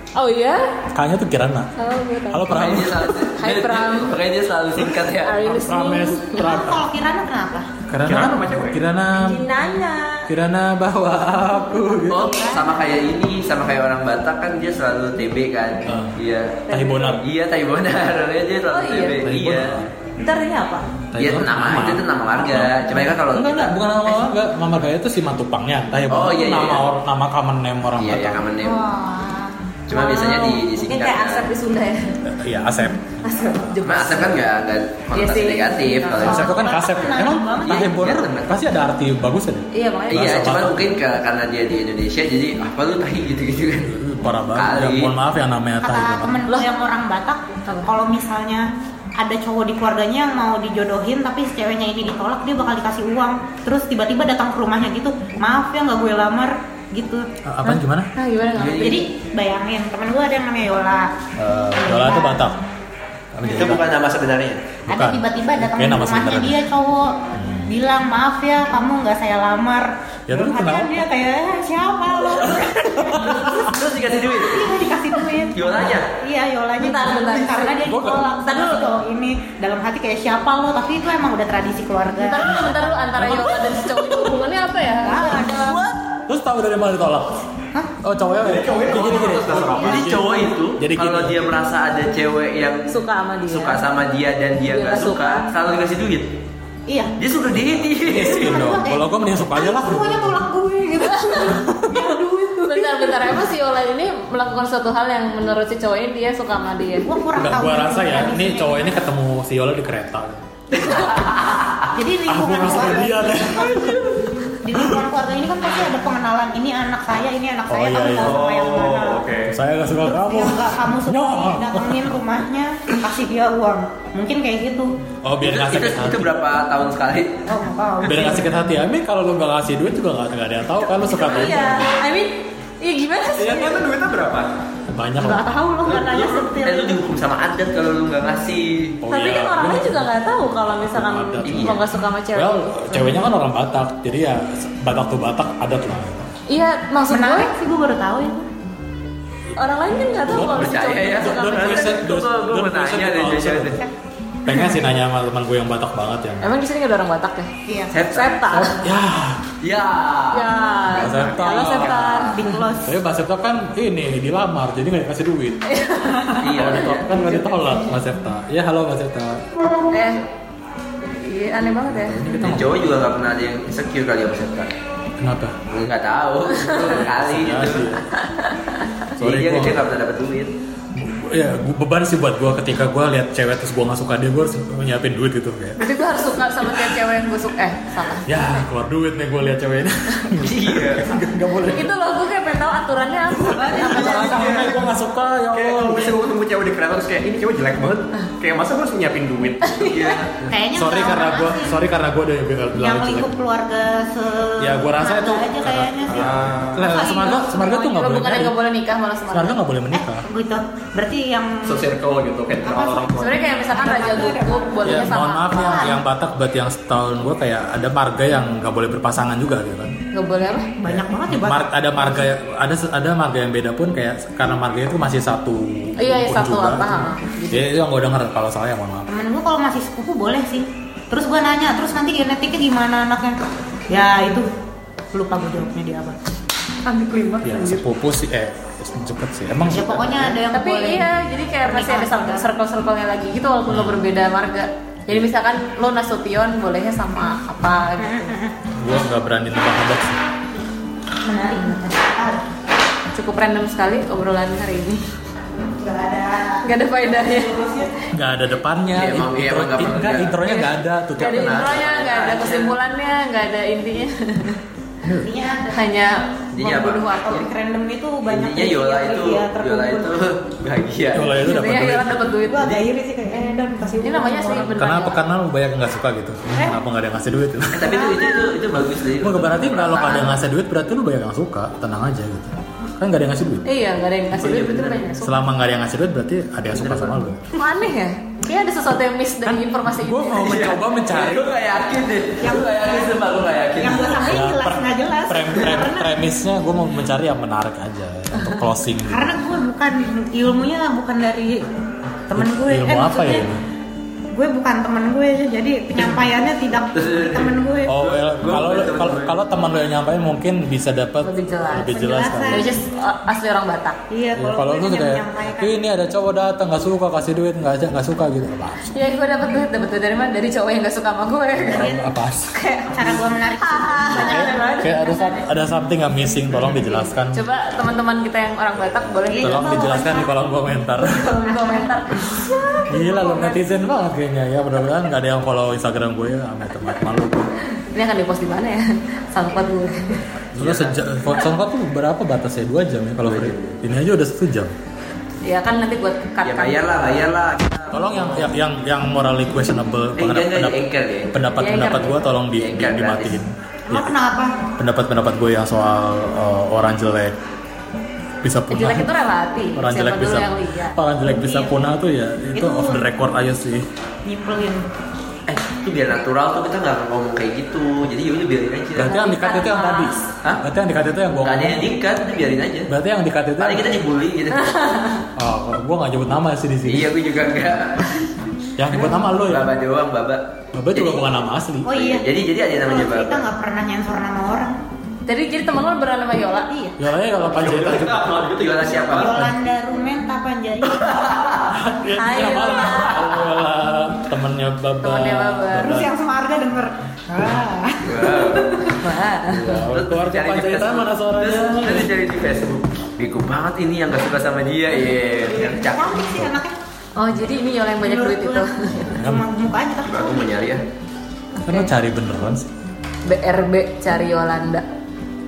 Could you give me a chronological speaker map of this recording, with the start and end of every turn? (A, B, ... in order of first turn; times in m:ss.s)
0:00.2-0:00.7 A
0:00.9-0:01.7 B
0:01.8-0:04.2 A
0:02.3-0:03.0 B
0:02.5-0:05.5 C
0:05.2-0:06.6 A
0:05.4-0:06.8 B
0:06.4-0:07.7 D
0:07.9-0:09.4 B
0:08.0-0:08.8 E
0:09.2-0:10.3 A
0:10.3-0:12.4 B
0:12.1-0:19.8 C
0:12.4-0:12.7 D
0:15.8-0:16.2 B
0:16.7-0:17.2 A
0:16.7-0:17.2 B
0:18.7-0:19.2 A
0:19.2-0:20.1 B
0:20.2-0:20.9 A
0:21.1-0:28.4 B
0:21.2-0:23.7 C
0:26.1-0:26.9 C
0:28.0-0:28.8 C
0:28.6-0:29.6 D
0:29.9-0:31.5 C
0:29.9-0:32.1 A
0:32.2-0:33.2 B
0:33.2-0:34.4 A
0:33.8-0:36.6 C
0:33.9-0:34.3 B
0:35.1-0:36.5 A
0:36.2-0:38.0 D
0:36.2-0:40.9 B
0:37.6-0:38.5 C
0:39.7-0:40.5 A
0:40.1-0:43.9 C
0:43.8-0:46.4 B
0:44.5-0:45.1 C
0:45.8-0:57.3 D
0:57.4-0:58.1 B
0:57.6-0:59.1 A
0:58.5-0:59.0 C
0:58.8-1:01.1 D
1:01.4-1:02.6 B
1:01.7-1:02.5 D
1:03.3-1:03.9 B
1:03.4-1:04.8 C
1:04.9-1:06.6 B
1:04.9-1:13.6 D
1:07.3-1:07.7 B
1:10.3-1:11.0 B
1:12.6-1:13.7 B
1:13.2-1:14.7 C
1:14.4-1:22.9 D
1:15.5-1:16.1 C
1:16.8-1:17.8 A
1:17.8-1:18.2 B
1:18.4-1:18.9 A
1:22.2-1:25.6 A
1:23.2-1:23.6 B
1:25.0-1:25.8 D
1:26.3-1:27.4 B
1:28.0-1:31.5 B
1:28.4-1:30.2 E
1:29.7-1:36.4 C
1:32.9-1:33.8 A
1:34.6-1:35.5 A
1:36.9-1:37.1 D
1:37.2-1:38.5 C
1:37.5-1:40.4 B
1:38.2-1:43.4 D
1:41.1-1:47.1 A
1:41.6-1:42.0 B
1:47.0-1:49.0 D
1:47.4-1:51.1 B
1:50.7-1:51.9 C
1:52.0-1:53.9 D
1:52.2-1:54.1 B
1:54.6-1:59.3 D
1:57.7-1:58.4 B
1:58.2-1:59.6 E
1:59.4-2:02.1 B
2:00.0-2:04.9 D
2:05.2-2:06.4 B
2:05.4-2:07.4 C
2:07.5-2:08.5 D
2:08.0-2:11.9 B
2:11.0-2:13.8 A
2:13.3-2:14.5 E
2:14.9-2:15.5 B
2:15.2-2:16.9 A
2:15.9-2:16.4 E
2:15.9-2:19.0 C
2:19.0-2:21.8 B
2:19.1-2:23.1 A
2:21.4-2:21.8 C
2:22.3-2:26.3 B
2:26.5-2:27.5 A
2:27.1-2:28.5 D
2:29.6-2:32.0 A
2:30.2-2:33.8 B
2:30.3-2:33.8 C
2:34.4-2:36.5 B
2:36.4-2:37.5 A
2:37.7-2:37.9 D
2:37.9-2:38.3 C
2:38.1-2:38.8 A
2:38.5-2:39.4 B
2:39.6-2:42.1 C
2:40.3-2:42.6 A
2:40.9-2:45.6 B
2:42.2-2:42.9 D
2:45.7-2:47.8 A
2:46.4-2:47.1 C
2:46.5-2:49.4 B
2:49.9-2:50.2 A
2:51.1-2:52.2 A
2:52.0-2:53.0 B
2:52.2-2:54.7 C
2:55.2-2:55.6 B
2:55.7-2:57.9 C
2:56.7-2:58.0 B
2:59.2-2:59.8 B
2:59.2-3:00.5 C
3:01.0-3:05.8 B
3:05.8-3:08.3 A
3:08.2-3:11.9 B
3:10.4-3:11.0 C
3:11.6-3:14.7 A
3:13.6-3:14.7 D
3:13.6-3:16.2 B
3:14.3-3:14.7 E
3:15.5-3:19.9 E
3:19.6-3:20.2 A
3:19.8-3:20.4 C
3:20.4-3:21.8 D
3:20.7-3:23.4 B
3:22.7-3:27.6 D
3:24.6-3:28.6 B
3:26.1-3:26.9 E
3:27.3-3:29.6 A
3:29.3-3:30.2 B
3:30.0-3:31.8 D
3:31.6-3:33.4 E
3:32.6-3:33.1 D
3:33.2-3:35.9 A
3:33.7-3:36.0 D
3:34.8-3:39.9 B
3:40.1-3:40.7 A
3:40.8-3:42.1 D
3:40.9-3:49.1 B
3:46.0-3:47.7 A
3:49.1-3:54.5 D
3:55.1-3:56.2 D
3:57.4-4:00.4 B
3:59.7-4:01.1 D
4:00.5-4:08.4 A
4:01.6-4:02.5 D
4:03.7-4:04.0 B
4:08.0-4:08.6 D
4:08.8-4:10.2 B
4:11.2-4:12.4 D
4:13.1-4:15.0 A
4:15.8-4:17.9 D
4:16.6-4:17.6 A
4:18.1-4:21.8 B
4:18.9-4:22.7 C
4:21.2-4:24.6 A
4:25.0-4:25.3 B
4:25.2-4:25.8 D
4:25.7-4:27.5 A
4:26.5-4:27.2 C
4:27.2-4:30.2 D
4:28.3-4:31.6 C
4:31.1-4:32.3 B
4:31.4-4:32.8 A
4:32.4-4:34.7 D
4:34.0-4:35.2 A
4:34.6-4:37.9 B
4:36.5-4:36.8 D
4:37.7-4:40.4 C
4:37.9-4:38.5 D
4:39.2-4:43.7 B
4:43.6-4:45.5 A
4:44.4-4:45.1 C
4:45.2-4:47.4 B
4:46.7-4:47.2 C
4:47.6-4:50.7 A
4:49.4-4:51.5 B
4:50.4-4:54.2 C
4:52.4-4:53.2 D
4:53.8-4:56.1 D
4:53.9-4:59.3 B
4:59.1-5:01.7 D
5:02.3-5:03.4 D
5:02.3-5:03.6 B
5:04.3-5:08.0 D
5:06.9-5:09.4 C
5:07.8-5:12.8 B
5:11.2-5:11.9 A
5:11.8-5:12.8 D
5:12.5-5:14.0 A
5:14.1-5:15.8 D
5:14.3-5:18.8 B
5:18.9-5:22.0 A
5:21.6-5:22.5 B
5:22.5-5:25.4 A
5:22.9-5:24.5 D
5:24.1-5:27.5 B
5:27.3-5:30.2 A
5:29.3-5:30.3 D
5:29.3-5:31.4 B
5:31.1-5:33.6 A
5:31.6-5:31.8 D
5:32.9-5:37.5 B
5:37.9-5:40.2 A
5:40.5-5:44.7 B
5:40.6-5:41.0 C
5:43.2-5:43.8 C
5:45.4-5:46.8 A
5:46.4-5:48.4 C
5:47.9-5:50.8 B
5:50.2-5:51.4 C
5:51.3-5:54.2 B
5:51.6-5:52.2 A
5:52.5-5:53.4 C
5:53.9-5:54.6 D
5:54.8-5:57.4 B
5:58.4-5:59.1 B
5:58.7-6:01.0 A
5:59.8-6:03.9 B
6:01.3-6:01.7 D
6:02.5-6:03.0 D
6:04.2-6:04.8 D
6:05.5-6:09.1 C
6:08.9-6:11.9 B
6:09.0-6:10.3 A
6:11.4-6:12.9 C
6:12.9-6:14.0 B
6:13.6-6:14.8 C
6:14.5-6:15.2 A
6:15.4-6:17.2 B
6:16.9-6:18.1 C
6:18.8-6:19.7 B
6:18.9-6:21.4 C
6:20.7-6:21.9 B
6:21.8-6:22.2 D
6:21.9-6:23.5 C
6:22.8-6:24.8 D
6:25.3-6:26.7 A
6:26.7-6:27.0 D
6:27.0-6:28.4 B
6:27.5-6:29.5 E
6:28.6-6:29.3 C
6:29.1-6:31.3 D
6:29.2-6:29.5 B
6:30.8-6:31.8 C
6:31.7-6:36.1 B
6:32.1-6:33.2 A
6:32.4-6:32.7 D
6:35.0-6:36.0 A
6:35.7-6:38.9 D
6:38.0-6:46.4 C
6:39.0-6:39.7 A
6:39.6-6:42.1 B
6:45.4-6:46.8 D
6:47.2-6:49.2 A
6:48.0-6:50.6 D
6:49.0-6:49.5 B
6:50.0-6:50.8 C
6:51.6-6:52.7 B
6:51.6-6:51.9 A
6:53.2-6:54.8 A